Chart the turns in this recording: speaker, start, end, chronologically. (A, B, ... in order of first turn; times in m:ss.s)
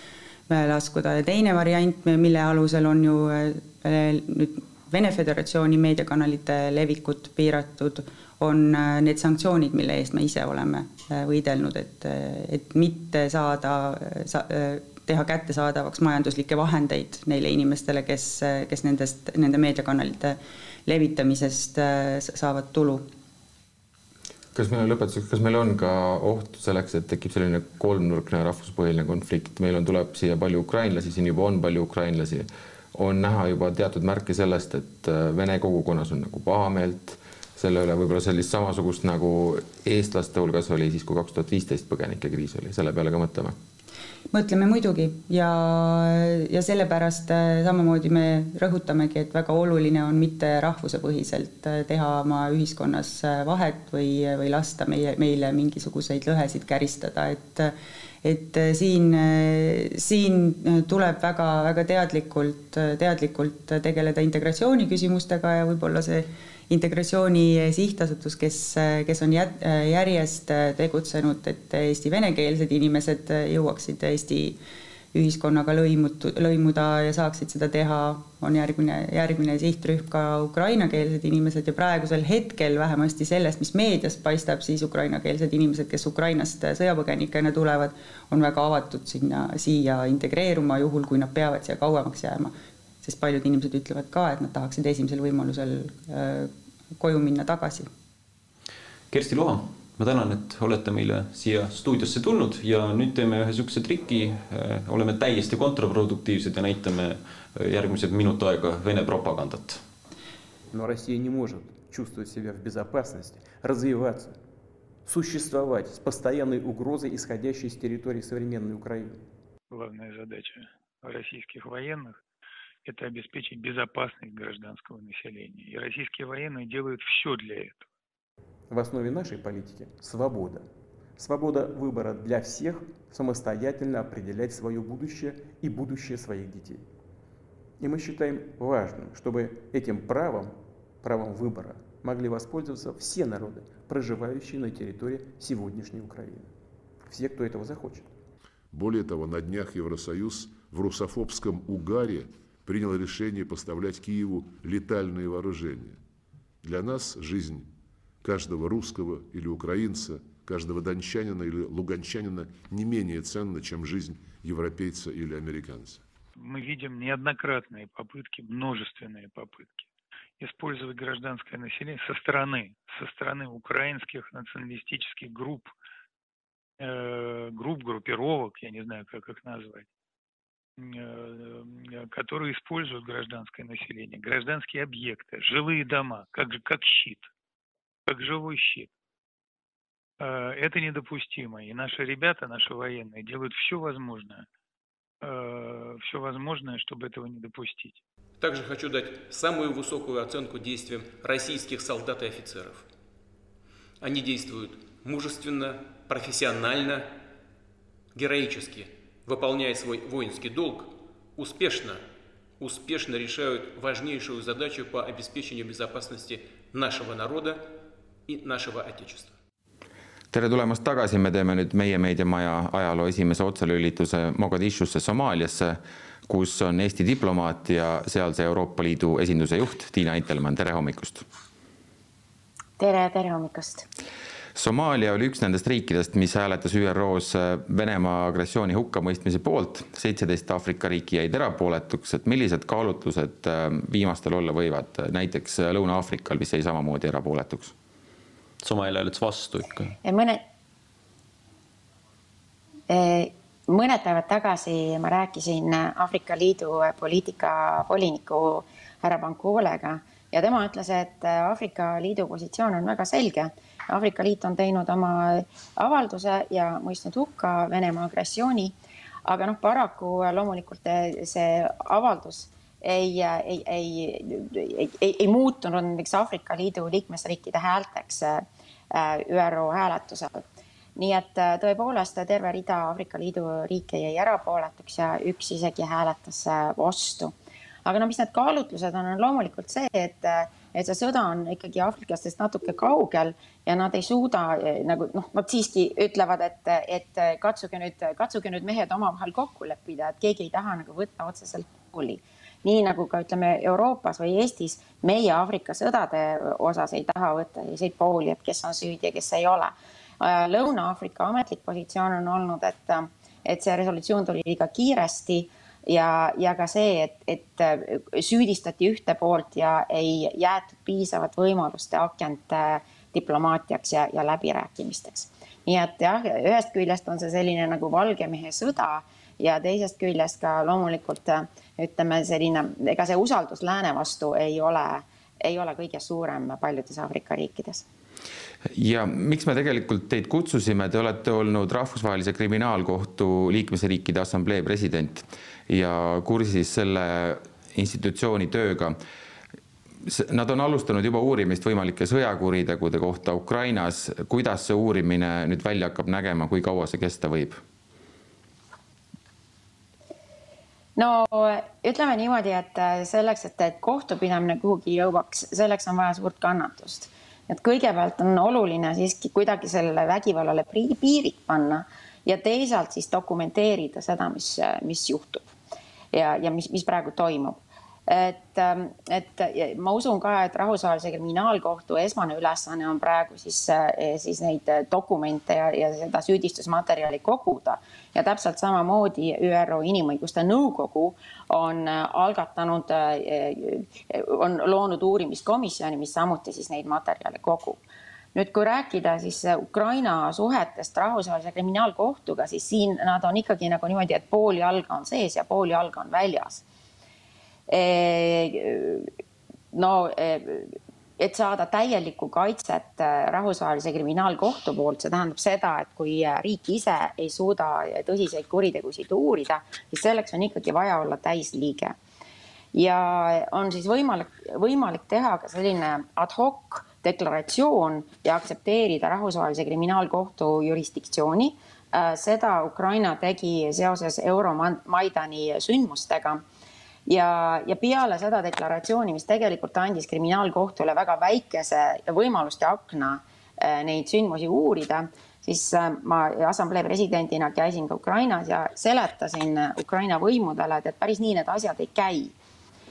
0:00.5-0:23.0 A
0:24.5-0:43.6 B
0:44.3-1:14.6 A
1:15.1-1:37.9 A
1:39.1-1:49.8 C
1:50.7-1:54.4 D
1:55.0-1:59.3 D
1:59.7-2:02.2 E
2:02.8-2:07.9 E
2:08.7-2:16.8 D
2:17.8-2:26.5 D
2:27.1-2:28.1 D
2:28.7-2:36.0 F
2:36.6-2:37.7 F
2:38.2-2:46.0 F
2:46.4-2:49.9 E
2:50.4-2:55.7 E
2:56.8-2:59.9 E
3:00.8-3:07.3 E
3:08.0-3:08.9 E
3:10.2-3:14.5 E
3:15.2-3:18.0 E
3:18.4-3:22.9 G
3:24.0-3:27.1 G
3:28.1-3:32.0 G
3:32.6-3:37.7 G
3:38.3-3:39.3 G
3:40.3-3:51.2 B
3:52.8-3:53.8 H
3:54.5-4:07.7 B
4:08.6-4:10.0 C
4:10.0-4:10.4 H
4:12.9-4:47.3 H
4:47.8-5:37.8 H
5:38.6-5:49.0 B
5:50.0-5:57.6 B
6:01.0-6:15.4 H
6:16.1-6:37.8 H
6:38.3-6:46.6 H
6:47.7-6:49.1 H
6:49.7-7:02.0 H
7:02.7-7:16.4 H
7:17.1-7:32.3 H